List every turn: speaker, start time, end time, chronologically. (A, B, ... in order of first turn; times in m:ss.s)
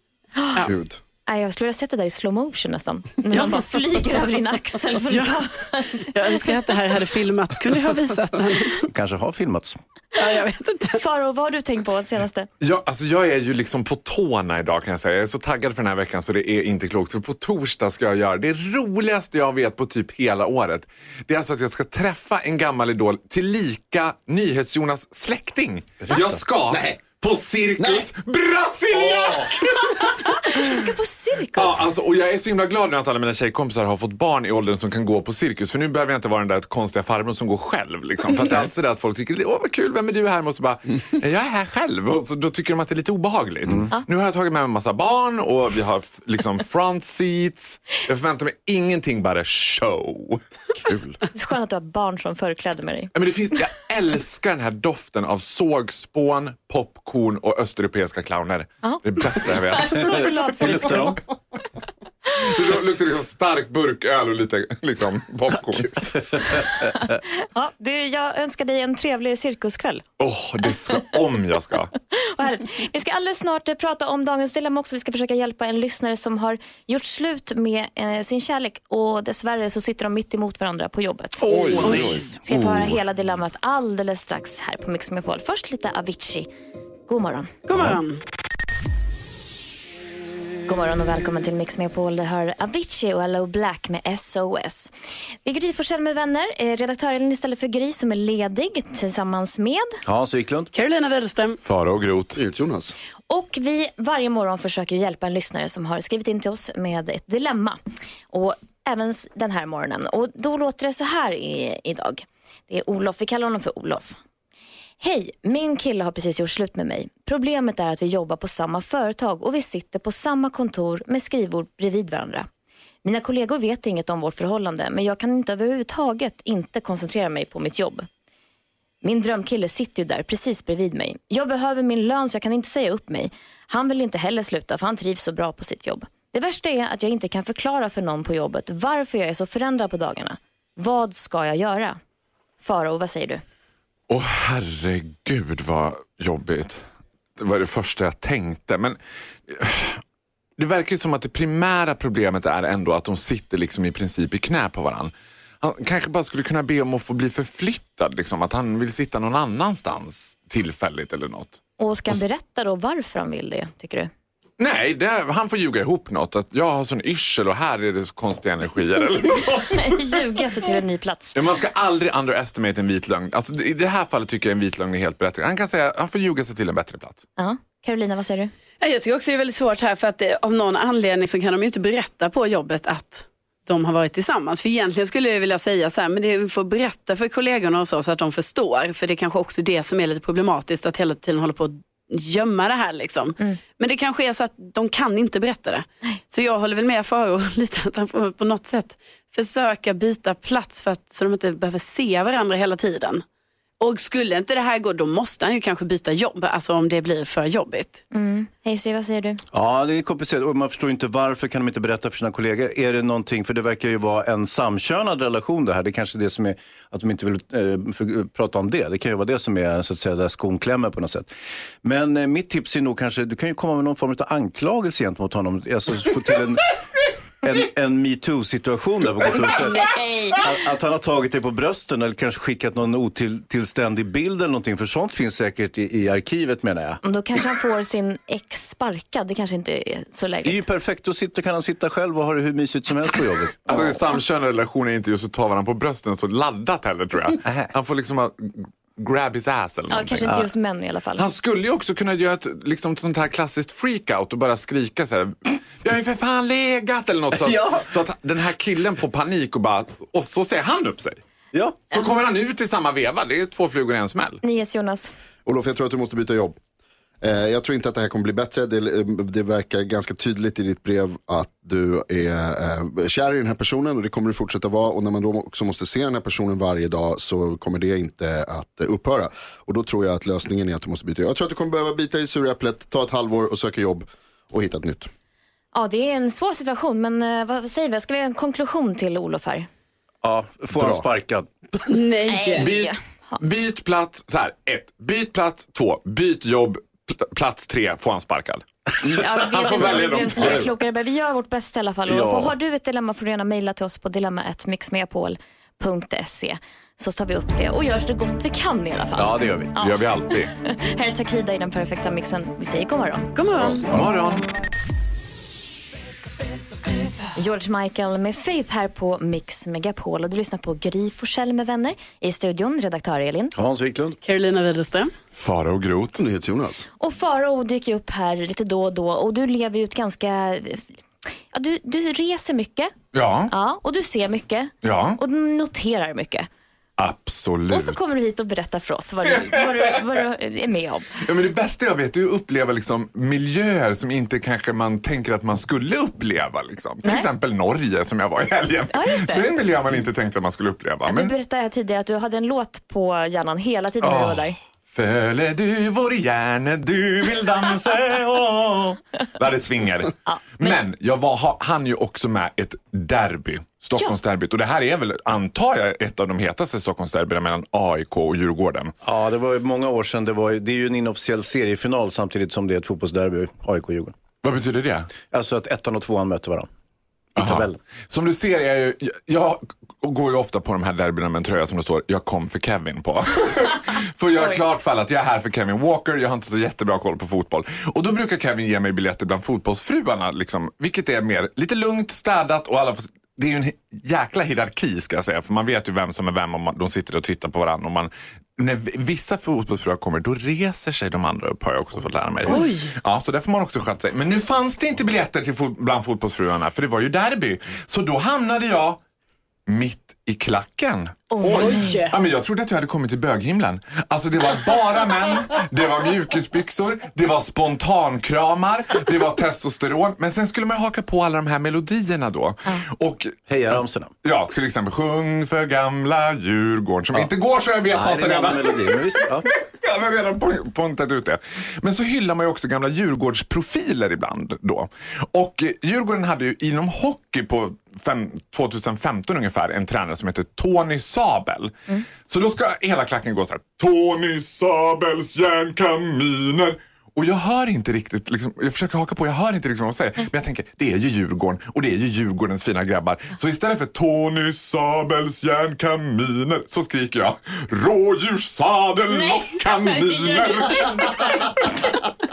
0:00.4-0:00.7 A
0:00.6-0:01.0 B
0:01.3-0:06.5 A
0:03.3-0:03.6 C
0:05.1-0:05.4 C
0:06.0-0:08.9 C
0:08.9-0:09.8 D
0:10.2-0:11.0 C
0:10.9-0:12.5 A
0:12.6-0:30.1 E
0:27.8-0:28.0 B
0:30.4-0:31.8 A
0:31.5-0:50.4 E
0:50.9-0:51.2 B
0:51.3-0:53.1 A
0:53.1-1:00.3 E
0:58.8-1:01.2 A
1:00.6-1:01.2 D
1:02.4-1:06.6 E
1:07.1-1:10.0 A
1:10.2-1:11.9 E
1:12.1-1:21.5 A
1:21.4-1:22.2 E
1:21.8-1:22.2 D
1:21.9-1:22.9 B
1:22.2-1:26.5 A
1:27.1-1:27.5 A
1:27.7-1:28.2 C
1:30.7-1:34.9 A
1:35.4-1:40.0 A
1:40.0-1:40.7 D
1:40.7-1:41.6 C
1:41.6-1:42.4 E
1:42.4-1:42.9 B
1:43.3-1:47.8 A
1:48.3-1:54.2 A
1:55.0-2:02.5 A
2:03.0-2:08.1 A
2:09.0-2:22.0 A
2:22.6-2:23.4 A
2:24.1-2:26.8 E
2:27.4-2:30.0 E
2:30.6-2:42.2 E
2:41.8-2:44.1 A
2:44.6-2:50.2 E
2:49.7-2:51.4 A
2:51.3-2:57.2 E
2:57.4-2:58.5 A
2:58.8-3:23.2 C
3:23.8-3:28.0 C
3:28.1-3:29.4 A
3:29.5-3:41.3 D
3:41.8-3:46.7 D
3:47.4-3:57.0 D
3:49.5-3:50.4 A
3:57.0-4:00.6 A
4:00.4-4:04.0 D
4:03.7-4:10.4 E
4:07.4-4:07.7 D
4:09.9-4:11.2 A
4:11.2-4:21.2 E
4:17.3-4:17.9 D
4:21.5-4:21.8 D
4:21.9-4:24.4 E
4:24.4-4:25.1 A
4:25.4-4:26.6 B
4:27.2-4:45.1 B
4:45.7-4:49.7 A
4:50.2-4:51.5 D
4:50.7-4:51.0 B
4:51.8-4:52.7 C
4:52.3-4:53.5 A
4:52.6-5:00.7 E
4:59.0-5:10.0 A
5:00.3-5:00.6 D
5:02.1-5:02.5 D
5:09.2-5:09.7 D
5:09.8-5:10.5 E
5:10.6-5:13.3 A
5:13.3-5:13.8 C
5:13.9-5:14.2 D
5:13.9-5:14.4 E
5:17.3-5:23.5 A
5:23.5-5:24.2 D
5:24.2-5:25.1 C
5:25.3-5:26.2 E
5:26.2-5:26.9 B
5:27.0-5:31.0 A
5:31.5-5:32.9 A
5:33.1-5:33.5 E
5:33.5-5:36.5 A
5:34.8-5:35.2 E
5:37.0-5:38.1 E
5:37.7-5:41.2 A
5:41.2-5:51.3 E
5:48.9-5:49.5 A
5:51.1-5:54.6 A
5:54.0-6:08.9 E
6:00.2-6:00.8 A
6:09.0-6:14.1 D
6:14.4-6:15.1 E
6:15.3-6:16.7 D
6:17.4-6:17.8 D
6:17.4-6:49.0 E
6:24.3-6:24.6 A
6:42.5-6:42.9 C
6:49.7-7:41.6 E
6:51.3-6:52.0 A
6:51.4-6:52.1 C
7:03.5-7:04.1 D
7:07.9-7:09.5 D
7:39.1-7:41.6 A